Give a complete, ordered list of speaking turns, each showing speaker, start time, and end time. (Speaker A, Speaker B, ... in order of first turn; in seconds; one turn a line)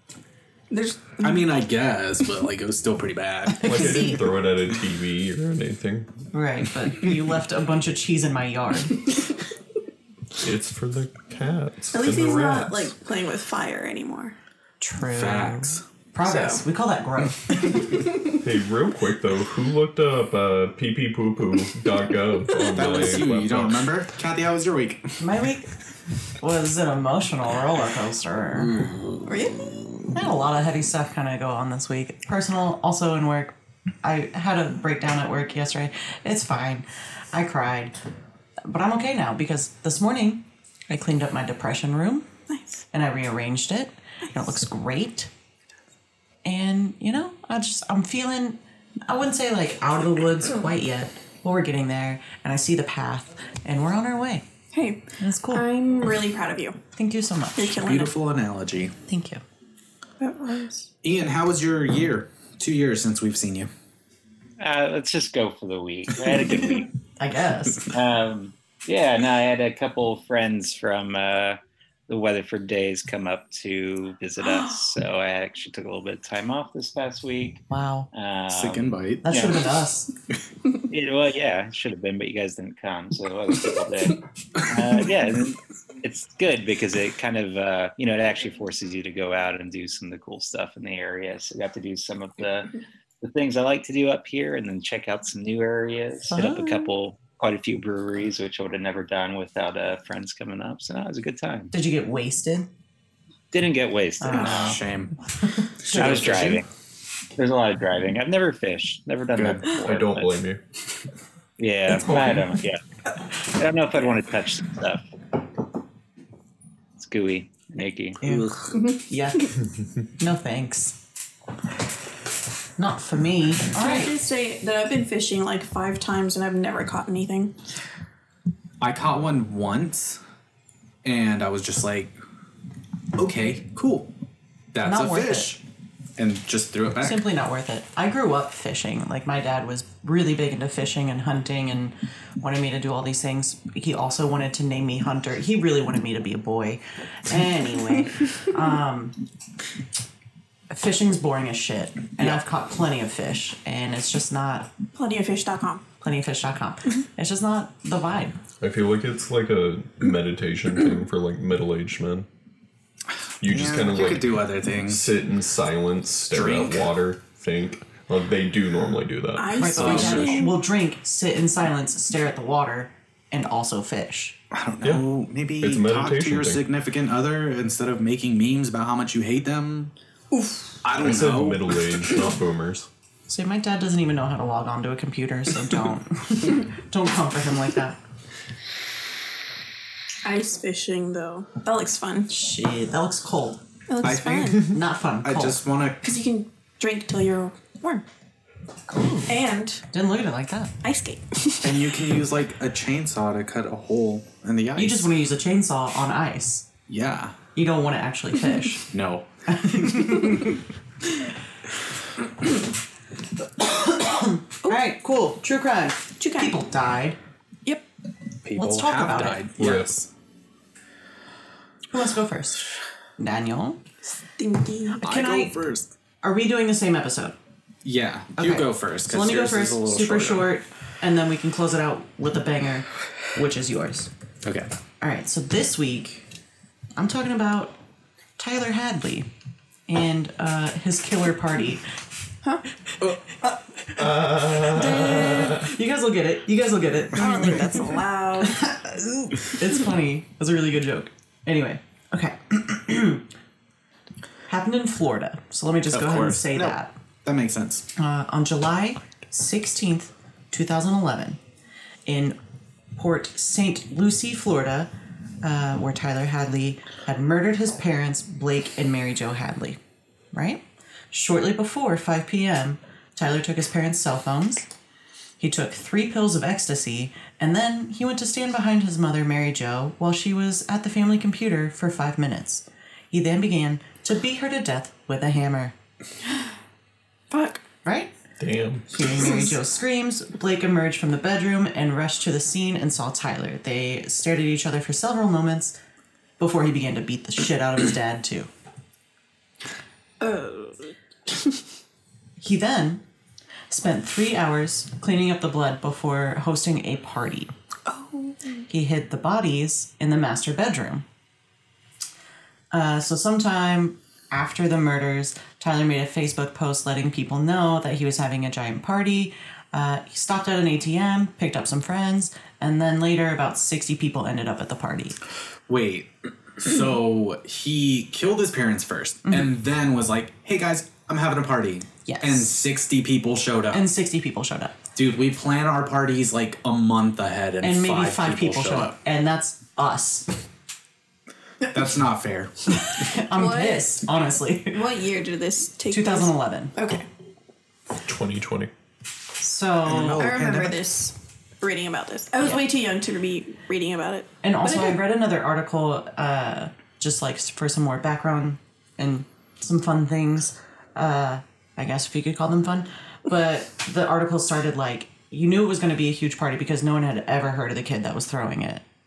Speaker A: 0.7-1.6
Speaker B: 1.2-4.0
Speaker C: 3.6-6.1
Speaker D: 3.6-4.2
Speaker D: 6.3-9.1
Speaker A: 8.9-9.3
Speaker C: 10.4-12.9
Speaker A: 11.9-14.3
Speaker D: 14.8-17.9
Speaker B: 15.1-15.8
Speaker A: 16.2-16.6
Speaker A: 17.7-18.4
Speaker C: 18.4-23.8
Speaker B: 22.7-25.2
Speaker D: 25.2-25.7
Speaker D: 26.3-28.8
Speaker B: 28.6-30.1
Speaker A: 29.2-29.7
Speaker D: 30.1-38.0
Speaker D: 38.7-42.3
Speaker A: 42.5-42.8
Speaker D: 42.9-45.3
Speaker D: 46.4-54.5
Speaker A: 54.7-56.8
Speaker D: 55.2-55.6
Speaker D: 57.0-57.8
Speaker A: 57.6-58.1
Speaker B: 57.8-58.9
Speaker D: 59.0-59.4
Speaker A: 60.2-60.9
Speaker B: 61.0-63.7
Speaker E: 64.6-66.9
Speaker D: 67.2-67.8
Speaker E: 67.9-79.6
Speaker D: 77.7-78.1
Speaker B: 78.5-79.5
Speaker D: 79.2-80.1
Speaker E: 80.9-101.7
Speaker D: 96.3-96.9
Speaker D: 101.7-102.7
Speaker E: 103.5-104.8
Speaker D: 104.2-104.8
Speaker B: 104.3-105.1
Speaker D: 105.4-106.4
Speaker B: 105.8-106.6
Speaker E: 105.9-106.7
Speaker E: 107.3-110.4
Speaker B: 109.3-109.6
Speaker C: 109.8-110.6
Speaker E: 111.6-112.8
Speaker D: 111.9-112.5
Speaker E: 113.4-115.0
Speaker E: 117.0-118.2
Speaker D: 118.2-119.5
Speaker B: 118.2-118.6
Speaker A: 118.7-119.5
Speaker D: 120.2-121.0
Speaker D: 122.8-124.1
Speaker A: 123.7-127.5
Speaker B: 128.8-130.2
Speaker B: 131.0-132.1
Speaker B: 133.2-134.1
Speaker B: 134.7-135.6
Speaker D: 134.8-135.6
Speaker B: 136.2-137.3
Speaker D: 137.0-149.2
Speaker D: 150.7-154.7
Speaker A: 154.9-155.8
Speaker D: 156.0-158.3
Speaker C: 158.6-162.3
Speaker B: 163.4-165.0
Speaker C: 163.4-170.0
Speaker B: 166.3-166.9
Speaker A: 169.4-170.6
Speaker D: 169.5-174.3
Speaker B: 169.7-170.5
Speaker B: 174.5-179.9
Speaker C: 175.6-176.6
Speaker A: 180.3-180.8
Speaker B: 180.8-182.1
Speaker C: 181.0-182.9
Speaker D: 183.3-188.0
Speaker A: 190.2-192.3
Speaker D: 192.3-193.6
Speaker A: 193.9-194.8
Speaker B: 194.0-196.0
Speaker D: 194.7-195.6
Speaker A: 196.0-198.0
Speaker D: 198.9-200.8
Speaker A: 199.3-199.8
Speaker A: 200.8-202.2
Speaker B: 201.6-205.1
Speaker D: 204.8-206.7
Speaker B: 206.9-207.3
Speaker D: 207.5-208.9
Speaker B: 208.9-209.2
Speaker D: 209.5-210.6
Speaker D: 213.6-217.2
Speaker A: 216.2-216.5
Speaker B: 218.4-220.1
Speaker D: 218.6-219.4
Speaker C: 219.6-219.9
Speaker D: 221.9-222.6
Speaker D: 223.2-223.8
Speaker A: 224.4-225.0
Speaker D: 225.0-225.6
Speaker B: 225.0-225.9
Speaker D: 226.2-227.3
Speaker B: 227.8-230.5
Speaker D: 228.4-234.1
Speaker B: 234.4-234.7
Speaker D: 235.0-236.2
Speaker D: 237.0-237.8
Speaker D: 238.4-239.3
Speaker D: 239.9-241.8
Speaker D: 243.4-253.2
Speaker C: 244.0-245.7
Speaker A: 245.1-245.5
Speaker A: 247.1-248.6
Speaker D: 254.5-256.9
Speaker B: 255.9-257.9
Speaker D: 258.0-261.4
Speaker D: 262.1-262.4
Speaker D: 262.9-264.9
Speaker D: 265.4-269.8
Speaker D: 270.3-274.7
Speaker D: 275.4-285.7
Speaker A: 287.3-287.6
Speaker D: 287.8-288.1
Speaker C: 288.4-289.1
Speaker D: 288.9-295.8
Speaker A: 289.0-289.6
Speaker D: 296.4-298.5
Speaker A: 300.2-301.6
Speaker D: 302.4-303.0
Speaker D: 303.7-307.5
Speaker A: 307.9-308.6
Speaker D: 308.7-311.0
Speaker D: 312.7-325.2
Speaker B: 325.7-333.8
Speaker D: 329.2-329.5
Speaker D: 332.1-332.5
Speaker D: 333.7-334.8
Speaker B: 334.9-338.9
Speaker D: 337.6-340.3
Speaker B: 341.7-342.7
Speaker D: 342.8-344.9
Speaker A: 343.3-343.9
Speaker A: 344.7-347.1
Speaker D: 345.9-346.8
Speaker C: 348.0-348.7
Speaker D: 349.4-350.3
Speaker B: 349.9-350.8
Speaker A: 350.1-355.0
Speaker D: 352.4-352.6
Speaker D: 354.4-368.8